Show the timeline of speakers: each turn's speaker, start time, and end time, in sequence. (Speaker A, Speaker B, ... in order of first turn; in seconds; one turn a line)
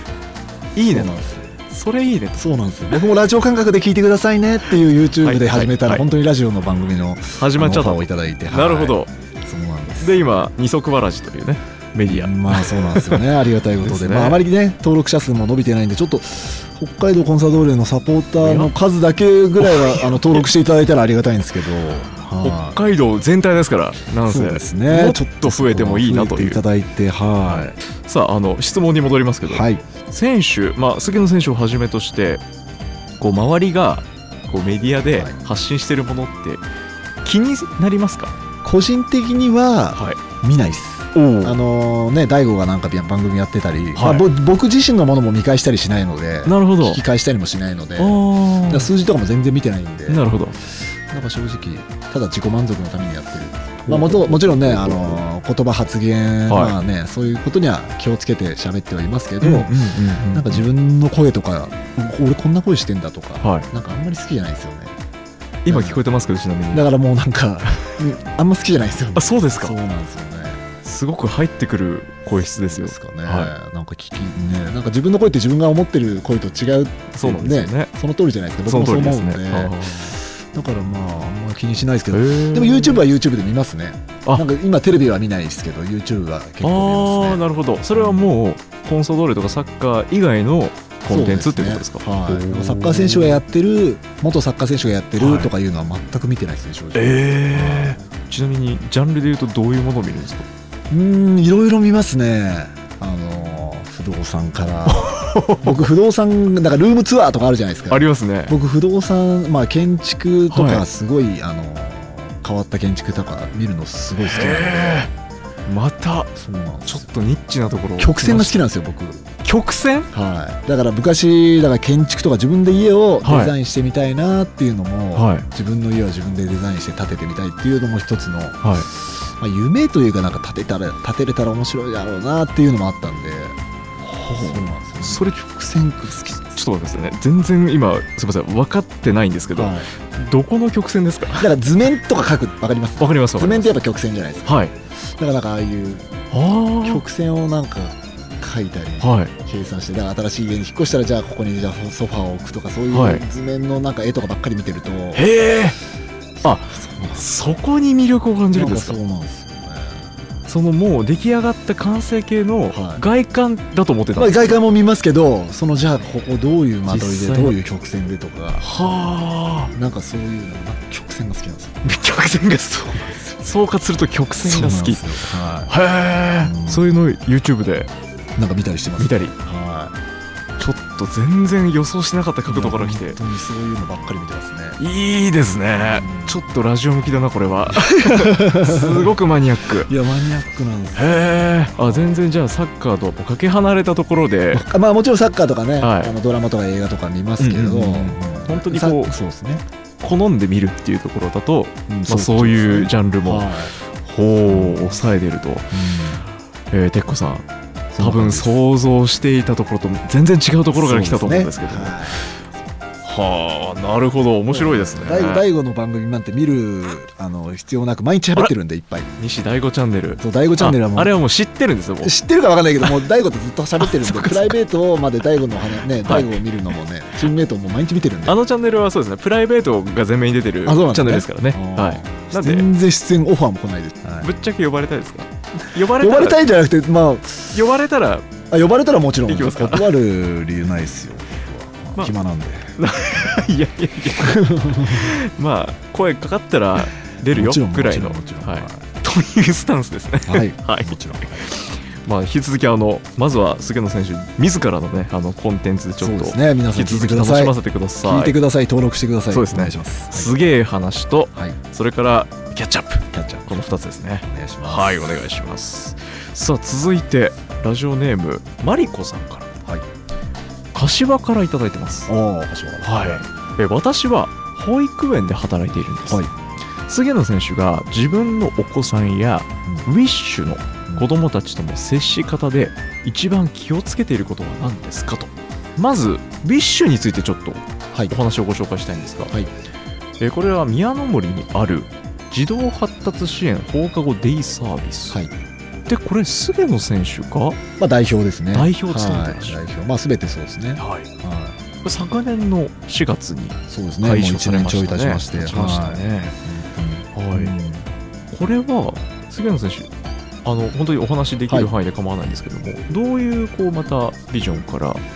Speaker A: 0.8-1.1
Speaker B: 0.9-1.5
Speaker A: 1.7-2.4
Speaker B: 2.4-10.2
Speaker A: 5.2-6.1
Speaker A: 7.3-9.1
Speaker A: 10.0-13.2
Speaker B: 12.0-22.8
Speaker A: 13.8-14.4
Speaker A: 18.4-18.7
Speaker A: 19.6-20.5
Speaker A: 22.4-26.6
Speaker B: 24.3-27.8
Speaker A: 27.4-32.4
Speaker B: 29.5-29.9
Speaker A: 33.2-36.6
Speaker B: 35.1-35.4
Speaker A: 37.2-38.3
Speaker B: 38.6-65.0
Speaker A: 39.9-40.2
Speaker A: 41.1-41.6
Speaker A: 44.0-44.3
Speaker A: 46.5-47.0
Speaker A: 48.0-48.9
Speaker A: 50.1-50.6
Speaker A: 53.9-55.2
Speaker A: 56.5-56.8
Speaker A: 59.4-60.7
Speaker A: 63.4-63.7
Speaker A: 65.7-66.9
Speaker B: 65.7-66.1
Speaker B: 66.7-70.6
Speaker A: 69.2-69.8
Speaker A: 70.8-73.5
Speaker B: 72.3-88.3
Speaker A: 77.2-77.9
Speaker A: 78.7-80.2
Speaker A: 82.1-83.0
Speaker A: 86.6-93.4
Speaker B: 91.1-98.1
Speaker A: 95.2-95.5
Speaker A: 96.9-100.5
Speaker B: 100.9-115.1
Speaker A: 104.9-105.9
Speaker A: 107.9-108.6
Speaker A: 110.5-110.9
Speaker A: 114.2-115.1
Speaker A: 115.7-116.3
Speaker B: 116.3-117.1
Speaker A: 116.9-118.6
Speaker B: 118.0-119.3
Speaker A: 119.4-120.1
Speaker B: 120.1-133.6
Speaker A: 123.2-123.5
Speaker A: 125.2-125.5
Speaker A: 128.6-128.9
Speaker A: 134.0-135.4
Speaker B: 134.4-136.7
Speaker A: 136.6-141.5
Speaker B: 139.6-139.9
Speaker B: 141.4-146.1
Speaker A: 143.0-143.8
Speaker A: 144.4-144.7
Speaker A: 146.3-147.0
Speaker B: 146.8-155.3
Speaker A: 149.0-149.3
Speaker A: 152.9-153.2
Speaker A: 155.2-155.8
Speaker B: 156.4-157.3
Speaker A: 156.4-159.0
Speaker B: 158.5-160.2
Speaker A: 160.5-164.6
Speaker B: 162.7-163.0
Speaker B: 164.2-168.7
Speaker A: 166.9-167.6
Speaker A: 168.6-169.7
Speaker B: 169.7-171.8
Speaker A: 171.8-175.1
Speaker B: 172.9-173.5
Speaker B: 174.4-175.8
Speaker A: 175.7-177.9
Speaker B: 176.4-176.9
Speaker B: 178.4-180.0
Speaker A: 179.0-179.3
Speaker A: 180.6-183.2
Speaker B: 182.5-184.8
Speaker A: 184.8-189.9
Speaker B: 185.8-186.4
Speaker B: 187.7-189.2
Speaker B: 189.8-192.3
Speaker A: 190.9-194.6
Speaker B: 194.5-199.6
Speaker A: 195.8-196.1
Speaker A: 197.4-199.2
Speaker A: 200.0-205.7
Speaker B: 201.9-203.8
Speaker B: 204.5-205.1
Speaker B: 205.7-206.3
Speaker A: 206.7-207.5
Speaker B: 207.9-208.6
Speaker A: 208.0-212.0
Speaker B: 210.7-212.4
Speaker A: 213.0-215.4
Speaker B: 214.5-219.1
Speaker A: 219.2-222.1
Speaker B: 220.2-221.1
Speaker B: 222.0-228.4
Speaker A: 223.8-224.6
Speaker A: 226.0-226.4
Speaker A: 228.3-232.7
Speaker B: 230.7-234.3
Speaker A: 234.2-236.4
Speaker B: 235.7-237.6
Speaker A: 237.5-238.3
Speaker B: 238.5-242.8
Speaker A: 239.3-239.9
Speaker A: 242.8-258.4
Speaker B: 244.2-245.1
Speaker B: 247.3-248.9
Speaker B: 250.3-251.5
Speaker B: 256.0-260.4
Speaker A: 259.3-269.5
Speaker B: 263.1-263.6
Speaker B: 264.2-265.2
Speaker A: 270.7-272.1
Speaker B: 272.1-273.2
Speaker A: 272.8-276.3
Speaker B: 276.1-276.3
Speaker A: 276.9-289.4
Speaker B: 279.6-279.9
Speaker A: 290.2-295.2
Speaker A: 295.9-297.6
Speaker B: 297.8-301.6
Speaker A: 298.5-299.6
Speaker A: 300.8-301.1
Speaker A: 301.8-306.4
Speaker B: 303.7-307.9
Speaker A: 307.1-307.5
Speaker A: 308.3-309.9
Speaker A: 310.4-315.0